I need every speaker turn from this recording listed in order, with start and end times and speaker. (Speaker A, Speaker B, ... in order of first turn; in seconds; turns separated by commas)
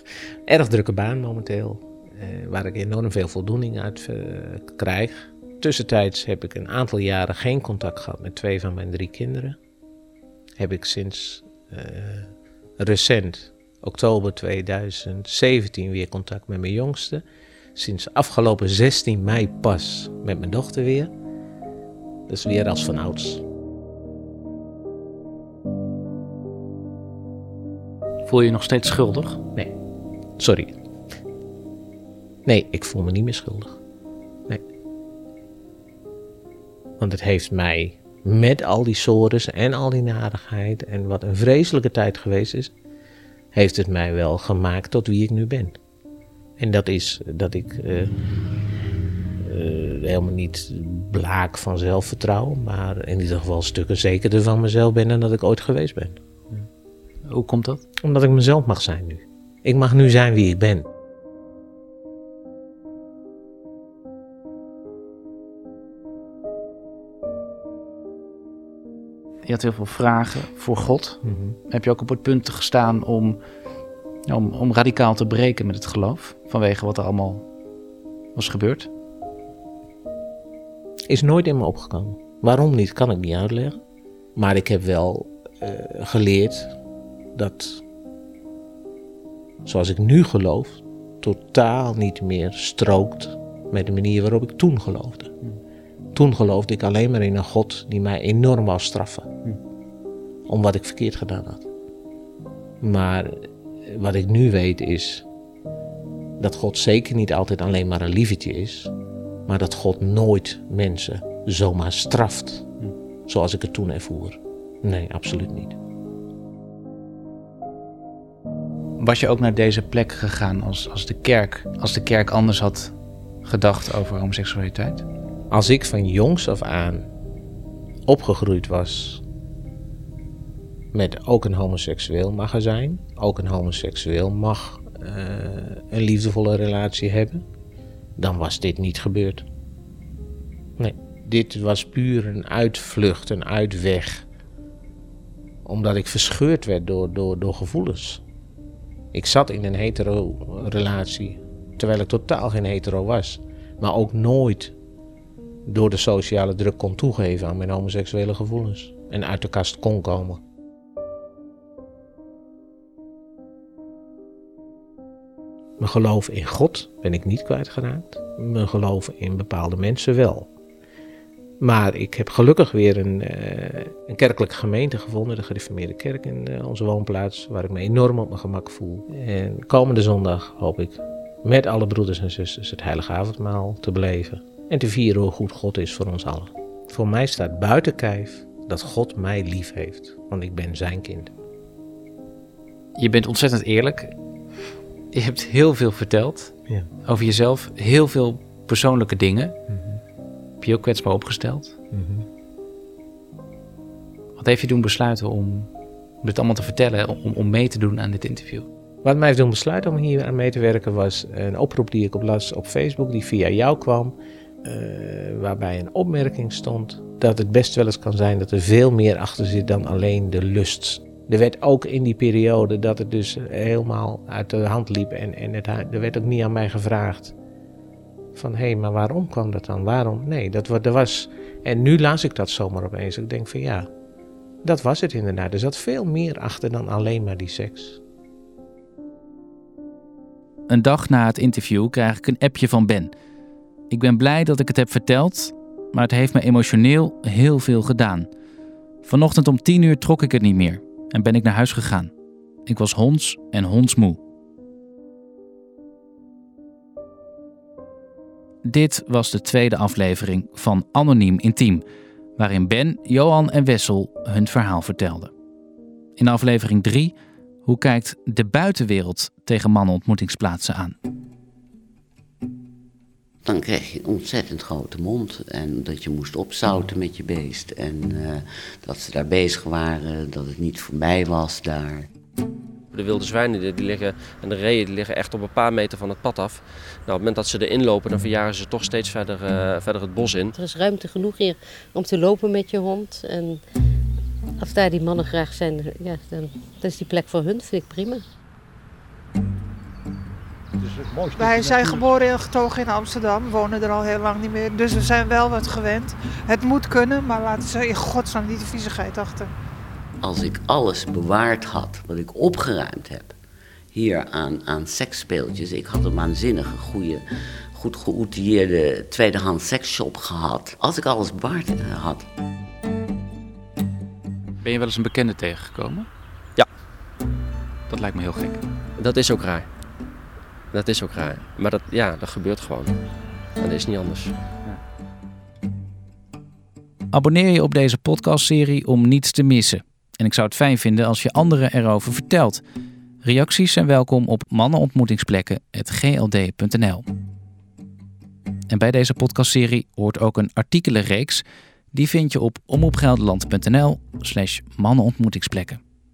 Speaker A: 0.5-9.6, Speaker A: 10.6-17.2, Speaker A: 17.8-21.1, Speaker A: 22.3-23.4, Speaker B: 28.2-29.4, Speaker A: 30.4-30.7, Speaker A: 32.5-33.8, Speaker A: 37.0-42.7, Speaker A: 43.5-45.8, Speaker A: 46.6-48.1, Speaker A: 49.4-56.2, Speaker B: 57.2-57.8, Speaker A: 58.0-60.9, Speaker B: 69.4-73.4, Speaker A: 71.2-71.6, Speaker B: 74.3-77.5, Speaker B: 78.3-78.9, Speaker A: 81.1-83.8, Speaker A: 84.4-86.8, Speaker A: 87.3-87.8, Speaker A: 89.6-95.3, Speaker A: 96.1-99.3, Speaker A: 100.5-101.7, Speaker A: 102.8-105.2, Speaker A: 106.4-108.9, Speaker A: 109.5-112.7, Speaker A: 113.3-115.8, Speaker B: 119.0-125.0, Speaker A: 125.5-127.1, Speaker A: 128.1-129.2, Speaker A: 130.9-137.4, Speaker A: 138.2-139.4, Speaker A: 140.8-144.2, Speaker A: 145.6-148.2, Speaker A: 149.1-154.7, Speaker A: 155.7-160.4, Speaker A: 165.8-170.5, Speaker A: 171.6-191.3, Speaker B: 192.9-194.1, Speaker B: 195.1-199.6, Speaker A: 199.7-200.0, Speaker B: 200.6-201.8, Speaker A: 201.9-202.2, Speaker B: 204.4-205.7, Speaker B: 206.2-208.7, Speaker A: 209.0-227.3, Speaker A: 228.3-233.9, Speaker A: 234.6-238.0, Speaker B: 240.7-243.1, Speaker B: 243.9-248.3, Speaker B: 249.0-252.1, Speaker B: 252.7-254.2, Speaker B: 258.6-261.8, Speaker B: 262.4-265.3, Speaker B: 266.2-267.1, Speaker B: 267.6-270.9, Speaker C: 273.4-282.1, Speaker D: 282.9-290.6, Speaker E: 290.6-293.6, Speaker E: 294.6-298.2, Speaker F: 301.3-309.5, Speaker C: 310.2-313.3, Speaker C: 313.9-322.3, Speaker B: 324.6-326.1, Speaker B: 327.9-328.6, Speaker D: 329.0-329.7, Speaker D: 330.7-333.0, Speaker D: 333.6-334.3, Speaker B: 337.1-342.6, Speaker B: 343.2-347.0, Speaker B: 348.7-355.8